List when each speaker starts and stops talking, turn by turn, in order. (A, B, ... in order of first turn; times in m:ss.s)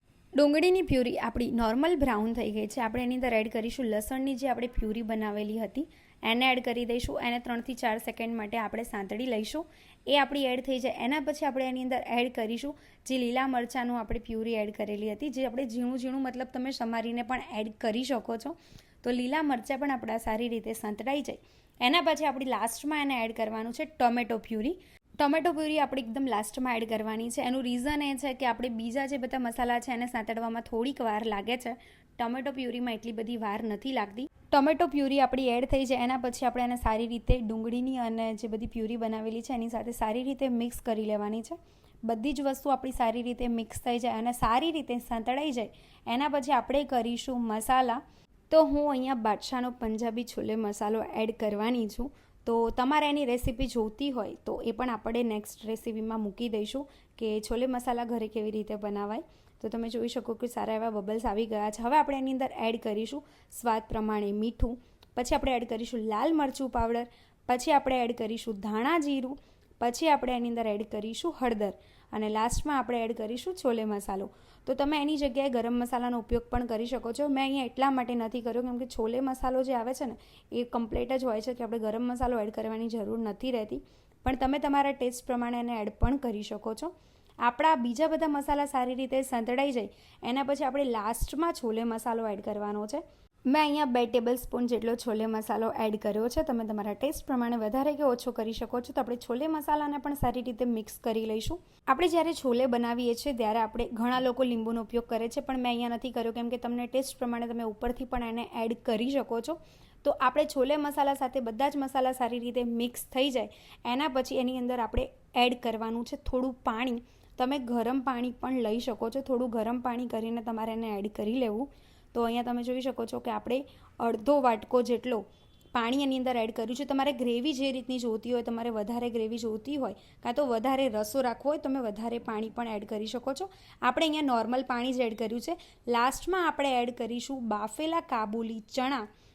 0:00.4-2:19.1 A